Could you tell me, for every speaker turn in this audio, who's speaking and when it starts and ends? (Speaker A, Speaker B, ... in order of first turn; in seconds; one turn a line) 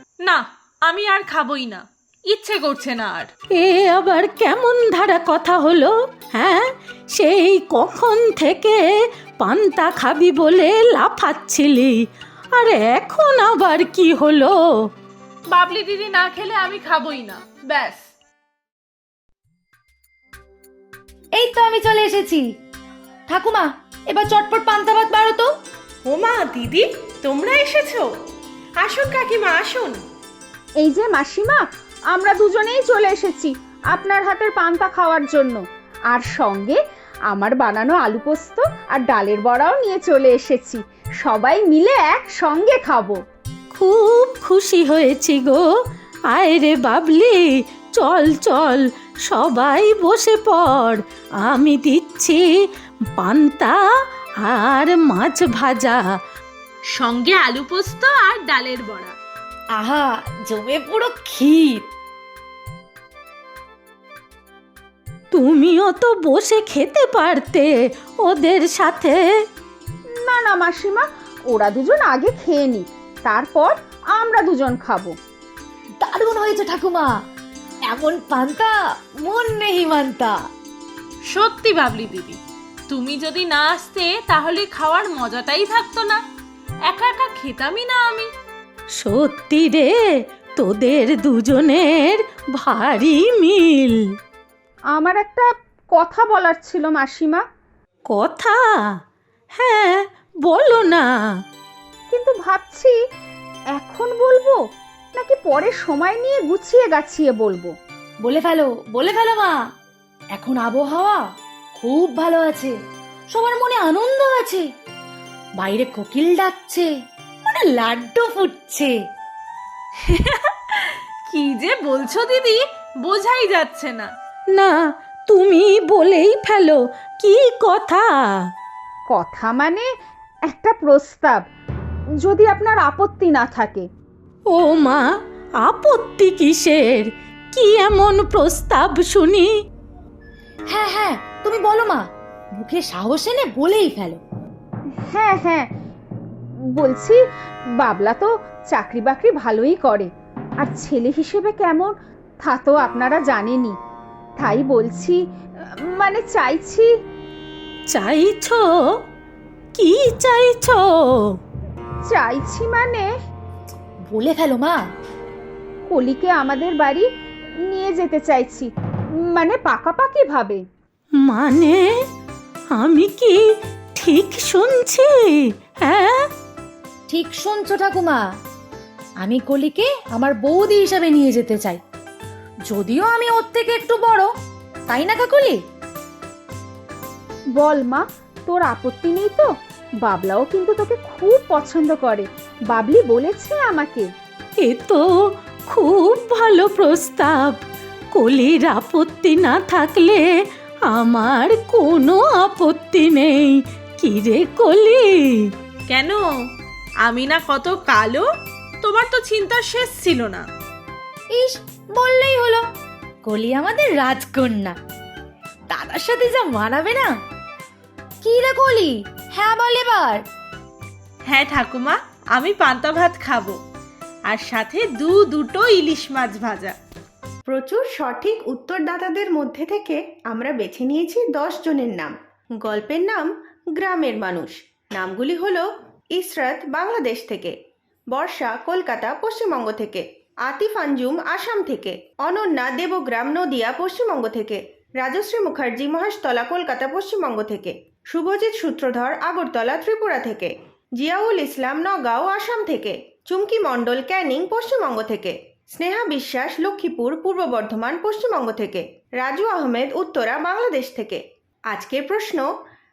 Speaker A: 0.2-3.3
Speaker B: 3.6-8.8
Speaker B: 9.4-12.0
Speaker B: 12.6-14.6
Speaker A: 15.5-18.0
Speaker C: 21.4-22.4
Speaker C: 23.3-25.5
Speaker A: 26.1-28.1
Speaker A: 28.8-30.0
Speaker D: 30.8-36.8
Speaker D: 37.3-43.2
Speaker B: 43.7-45.6
Speaker B: 46.3-47.5
Speaker B: 48.0-52.4
Speaker B: 53.2-53.8
Speaker B: 54.4-56.0
Speaker A: 57.0-59.1
Speaker C: 59.8-61.9
Speaker B: 65.3-67.7
Speaker B: 68.2-69.2
Speaker D: 70.2-75.2
Speaker C: 76.0-77.1
Speaker C: 77.9-80.4
Speaker A: 81.3-82.4
Speaker A: 82.9-86.2
Speaker A: 86.9-88.3
Speaker B: 89.0-89.9
Speaker B: 90.6-94.0
Speaker D: 94.9-97.4
Speaker B: 98.1-98.5
Speaker B: 99.6-101.0
Speaker D: 102.1-103.0
Speaker D: 103.8-104.6
Speaker D: 105.2-107.7
Speaker C: 108.2-109.6
Speaker C: 110.3-111.2
Speaker C: 111.8-112.8
Speaker C: 113.3-114.7
Speaker C: 115.6-116.9
Speaker C: 117.5-119.0
Speaker A: 120.0-124.1
Speaker B: 125.3-128.1
Speaker D: 129.1-129.9
Speaker D: 130.5-131.4
Speaker D: 132.2-133.9
Speaker B: 134.5-135.1
Speaker B: 135.6-139.5
Speaker C: 140.7-142.0
Speaker C: 142.6-144.2
Speaker D: 145.1-145.7
Speaker D: 146.8-147.2
Speaker D: 147.8-150.1
Speaker D: 150.6-153.8
Speaker D: 154.4-155.2
Speaker D: 155.9-156.9
Speaker B: 157.9-158.6
Speaker B: 159.8-161.4
Speaker D: 162.1-163.1
Speaker C: 164.1-164.8
Speaker D: 165.9-167.1
Speaker D: 167.7-168.7
Speaker D: 169.3-170.6
Speaker B: 171.2-171.8
Speaker B: 172.7-173.4
Speaker B: 174.0-176.2
Speaker C: 177.1-178.2
Speaker C: 179.2-181.8
Speaker C: 182.7-184.3
Speaker C: 184.9-185.6
Speaker D: 187.6-189.5
Speaker D: 190.0-194.1
Speaker B: 194.6-195.0
Speaker B: 195.7-197.6
Speaker B: 198.1-200.2
Speaker B: 200.9-205.5
Speaker A: 205.9-206.2
Speaker A: 207.1-208.3
Speaker A: 208.8-210.4
Speaker C: 211.3-212.7
Speaker C: 213.2-214.8
Speaker C: 215.7-217.1
Speaker C: 218.2-220.2
Speaker A: 221.3-223.6
Speaker A: 224.3-226.7
Speaker E: 227.5-237.6
Speaker E: 238.1-262.5